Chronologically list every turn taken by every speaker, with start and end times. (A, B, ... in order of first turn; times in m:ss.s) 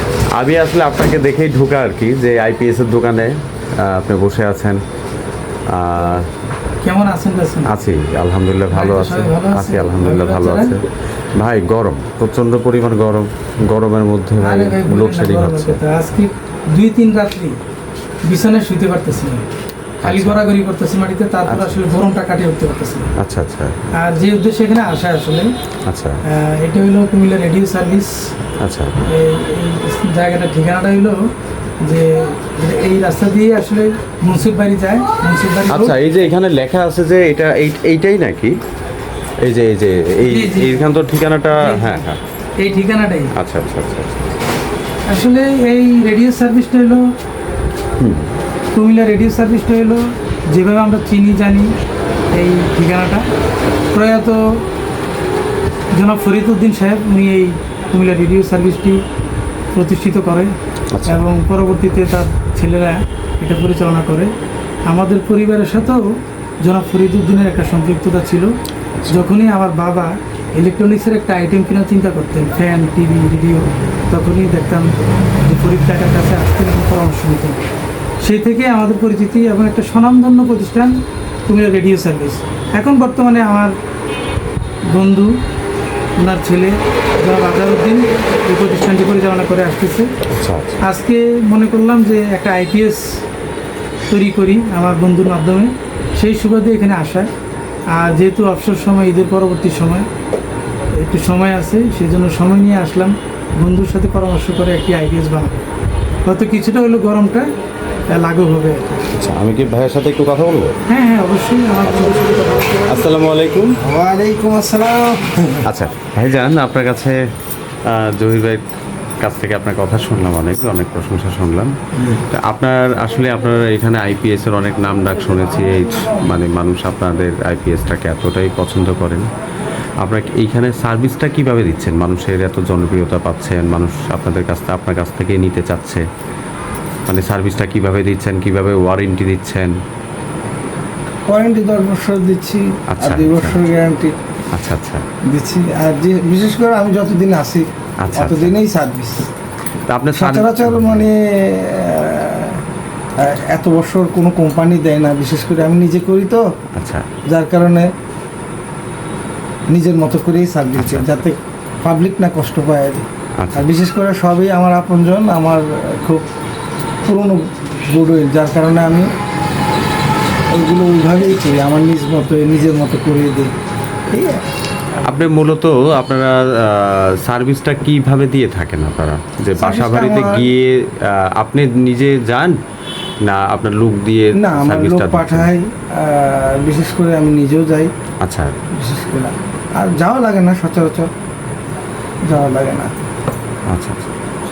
0:00.3-0:04.8 A
0:05.7-0:06.3 A
0:06.8-0:07.7 B
0:07.7-0:10.8 A
0:08.7-0:10.8 B
0:11.4-0:15.8 A
0:14.4-0:17.6 B
0:18.3-0:19.5 B
0:20.0-0:20.4 A
0:20.0-0:23.1 B
0:21.5-0:21.9 A
0:23.2-0:23.9 A
0:23.9-0:25.5 B
0:25.9-0:26.2 A
0:26.3-0:28.2 B
0:28.6-0:29.0 A
0:29.1-0:31.3 B
0:31.8-0:36.0 B
0:35.7-0:38.6 A
0:39.4-0:42.2 A
0:40.2-0:41.0 B
0:41.5-0:42.0 B
0:42.6-0:43.3 B
0:43.4-0:44.3 A
0:45.1-0:47.0 B
0:48.0-0:48.4 A
0:48.7-0:51.7 B
0:52.3-0:53.2 B
0:53.9-0:54.4 B
0:55.9-0:59.0 B
0:59.7-1:00.5 B
1:00.9-1:01.2 A
1:01.0-1:04.3 B
1:04.9-1:08.5 B
1:09.1-1:14.9 B
1:15.4-1:17.6 B
1:18.2-1:20.9 B
1:21.5-1:23.7 B
1:24.9-1:25.3 B
1:26.2-1:30.1 B
1:30.3-1:30.8 A
1:30.8-1:33.2 B
1:34.1-1:37.3 B
1:37.9-1:40.1 B
1:40.9-1:45.6 B
1:46.2-1:47.5 B
1:48.1-1:49.0 B
1:49.1-1:50.8 A
1:50.9-1:53.0 B
1:52.9-1:53.8 A
1:53.8-1:55.7 C
1:55.6-1:57.2 A
1:57.8-1:58.6 A
1:59.2-2:09.3 A
2:10.0-2:16.0 A
2:17.1-2:19.7 A
2:21.3-2:24.1 C
2:22.9-2:23.7 A
2:24.5-2:25.0 A
2:25.3-2:29.3 C
2:28.0-2:28.6 A
2:29.9-2:31.1 A
2:30.1-2:32.6 C
2:33.2-2:36.4 C
2:36.8-2:37.1 A
2:37.3-2:37.9 C
2:39.7-2:46.2 C
2:40.7-2:41.2 A
2:43.4-2:43.7 A
2:47.0-2:49.1 C
2:50.5-2:53.5 C
2:54.1-2:54.4 C
2:55.0-3:02.6 A
2:59.6-3:00.5 C
3:03.2-3:05.5 A
3:04.4-3:07.9 C
3:08.2-3:08.5 A
3:08.8-3:11.1 C
3:12.3-3:12.9 C
3:13.7-3:14.1 A